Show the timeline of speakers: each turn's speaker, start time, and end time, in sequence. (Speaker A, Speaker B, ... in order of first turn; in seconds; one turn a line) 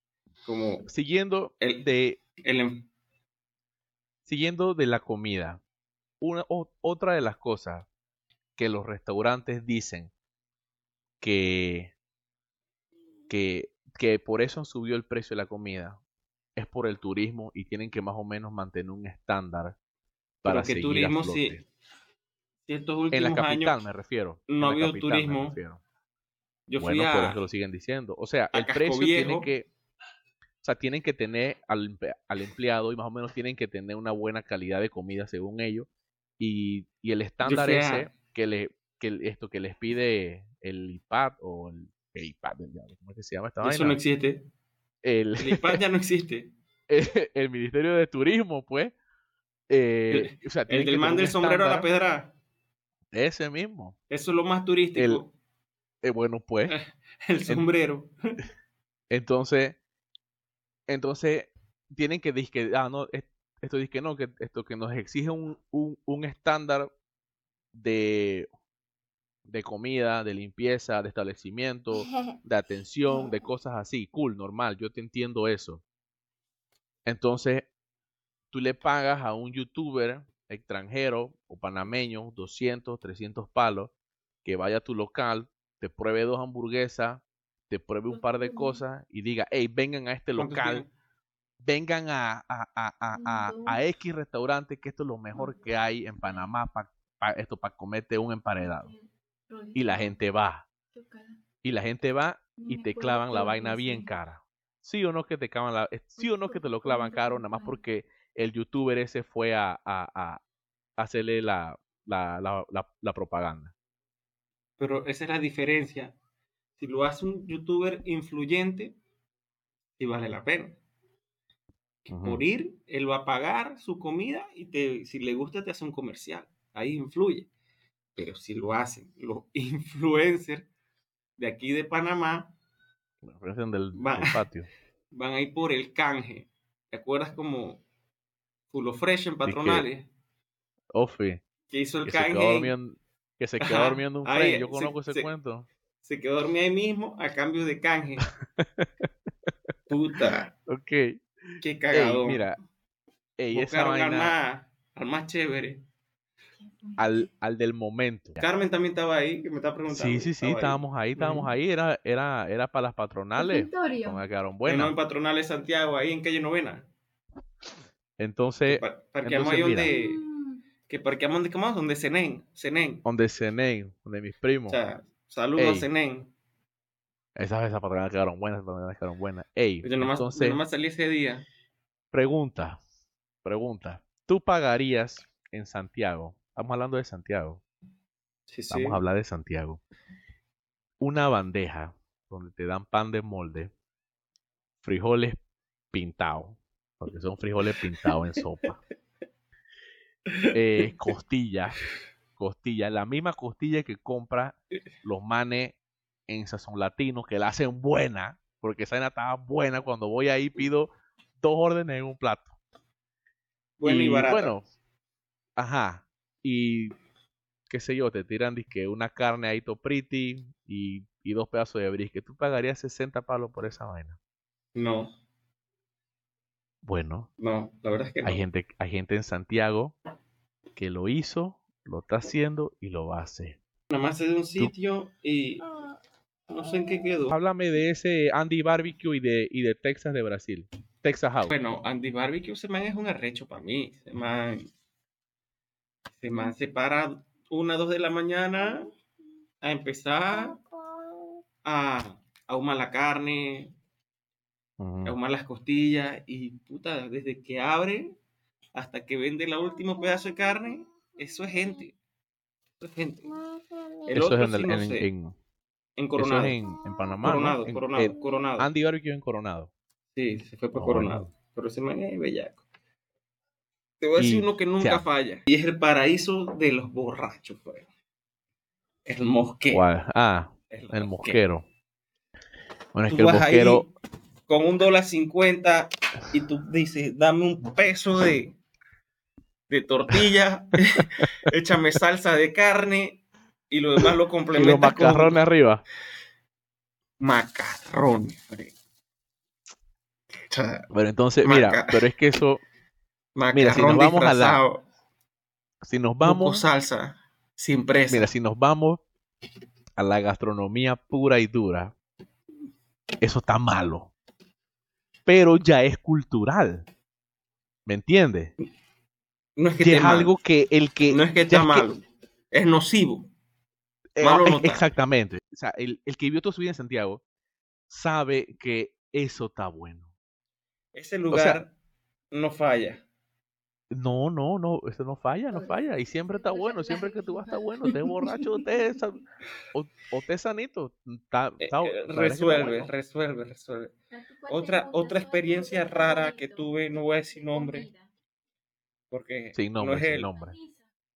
Speaker A: 0.5-0.9
Speaker B: 0.9-2.2
Speaker A: 1.6-1.9
Speaker A: 2.4-2.9
Speaker B: 4.3-5.6
Speaker B: 6.2-7.9
Speaker B: 8.6-10.1
Speaker B: 11.2-11.9
Speaker B: 13.3-16.0
Speaker B: 16.6-19.8
Speaker B: 20.4-21.6
Speaker A: 20.4-21.6
Speaker A: 22.7-23.8
Speaker B: 23.1-25.8
Speaker A: 24.5-25.6
Speaker A: 26.7-27.4
Speaker B: 26.8-29.7
Speaker A: 28.5-29.5
Speaker B: 30.6-35.9
Speaker B: 36.4-44.0
Speaker A: 37.4-38.1
Speaker A: 43.6-44.4
Speaker B: 45.0-45.8
Speaker A: 45.4-46.5
Speaker B: 46.9-49.0
Speaker B: 49.7-51.9
Speaker A: 50.1-52.3
Speaker B: 53.1-54.0
Speaker A: 54.1-55.3
Speaker B: 55.0-55.2
Speaker B: 56.0-56.8
Speaker A: 56.7-58.1
Speaker B: 59.1-59.8
Speaker B: 60.9-66.9
Speaker B: 67.7-68.5
Speaker B: 69.5-75.8
Speaker B: 77.1-77.7
Speaker B: 78.5-83.9
Speaker B: 84.5-90.9
Speaker C: 88.1-88.8
Speaker A: 90.4-90.9
Speaker B: 91.6-98.9
Speaker C: 93.2-93.8
Speaker C: 95.3-95.6
Speaker C: 98.6-100.2
Speaker B: 99.8-100.7
Speaker C: 100.9-101.4
Speaker B: 101.6-110.4
Speaker C: 102.6-104.1
Speaker C: 106.2-107.8
Speaker B: 111.0-113.7
Speaker A: 114.8-116.2
Speaker A: 116.8-119.0
Speaker A: 120.0-120.8
Speaker A: 122.1-127.5
Speaker B: 122.1-122.4
Speaker A: 128.2-130.7
Speaker A: 131.4-132.6
Speaker B: 133.2-134.7
Speaker A: 133.9-134.4
Speaker A: 135.1-137.8
Speaker A: 138.7-140.1
Speaker B: 139.5-139.9
Speaker B: 140.9-141.4
Speaker A: 141.7-142.7
Speaker B: 142.1-145.7
Speaker A: 143.6-145.3
Speaker A: 146.0-148.3
Speaker B: 148.6-149.7
Speaker A: 149.9-150.5
Speaker B: 150.7-152.6
Speaker A: 151.6-152.4
Speaker B: 153.4-154.3
Speaker A: 153.5-155.8
Speaker C: 156.6-157.2
Speaker B: 157.0-158.4
Speaker A: 158.4-161.5
Speaker B: 159.9-164.9
Speaker C: 163.4-164.2
Speaker A: 164.7-166.9
Speaker B: 168.2-169.9
Speaker A: 168.7-170.2
Speaker C: 169.8-170.6
Speaker A: 170.9-173.0
Speaker B: 173.1-174.8
Speaker A: 174.7-176.3
Speaker B: 175.6-175.9
Speaker B: 177.4-180.6
Speaker A: 179.8-181.5
Speaker B: 182.1-182.8
Speaker B: 183.4-187.6
Speaker A: 188.5-189.0
Speaker B: 188.7-189.8
Speaker B: 191.0-193.7
Speaker B: 194.8-195.4
Speaker B: 195.9-198.8
Speaker B: 200.5-201.8
Speaker B: 202.4-205.8
Speaker B: 206.3-212.6
Speaker A: 213.8-214.5
Speaker B: 213.8-214.7
Speaker B: 215.6-216.9
Speaker B: 217.7-224.2
Speaker A: 224.8-225.1
Speaker B: 226.8-227.3
Speaker A: 227.4-228.4
Speaker B: 228.2-230.0
Speaker B: 230.8-233.6
Speaker A: 233.9-235.7
Speaker A: 236.5-237.3
Speaker B: 237.3-241.5
Speaker A: 241.4-244.7
Speaker A: 246.2-248.9
Speaker A: 249.6-250.6
Speaker A: 251.7-253.8
Speaker B: 254.8-255.2
Speaker A: 255.1-258.2
Speaker A: 258.8-262.0
Speaker A: 262.8-263.3
Speaker A: 264.1-265.1
Speaker B: 264.1-265.4
Speaker A: 266.0-266.6
Speaker B: 266.2-269.7
Speaker A: 267.2-268.7
Speaker A: 270.1-272.6
Speaker B: 270.7-271.3
Speaker A: 274.0-277.9
Speaker B: 274.2-275.1
Speaker A: 279.1-279.8
Speaker B: 279.7-281.6
Speaker A: 280.7-281.4
Speaker B: 282.9-283.9
Speaker A: 283.1-283.9
Speaker A: 284.5-288.6
Speaker A: 289.7-295.4
Speaker B: 294.5-295.8
Speaker A: 297.2-298.7
Speaker A: 300.5-300.9
Speaker B: 300.9-302.6
Speaker A: 301.4-302.0
Speaker A: 303.4-304.8
Speaker B: 303.5-304.6
Speaker B: 305.8-306.6
Speaker A: 306.2-308.3
Speaker B: 308.1-309.0
Speaker B: 310.0-311.9
Speaker B: 313.2-314.1
Speaker B: 315.3-316.9
Speaker B: 317.9-318.5
Speaker A: 319.6-320.3
Speaker B: 319.8-321.9
Speaker A: 321.1-323.3
Speaker B: 324.2-327.2
Speaker A: 324.2-324.9
Speaker B: 327.9-330.1
Speaker A: 330.9-331.8
Speaker B: 331.3-331.6
Speaker A: 332.3-333.0
Speaker B: 333.9-342.9
Speaker C: 335.5-338.6
Speaker A: 341.6-343.9
Speaker C: 344.1-348.1
Speaker A: 344.5-347.9
Speaker A: 349.1-350.3
Speaker B: 349.6-350.6
Speaker C: 350.3-350.9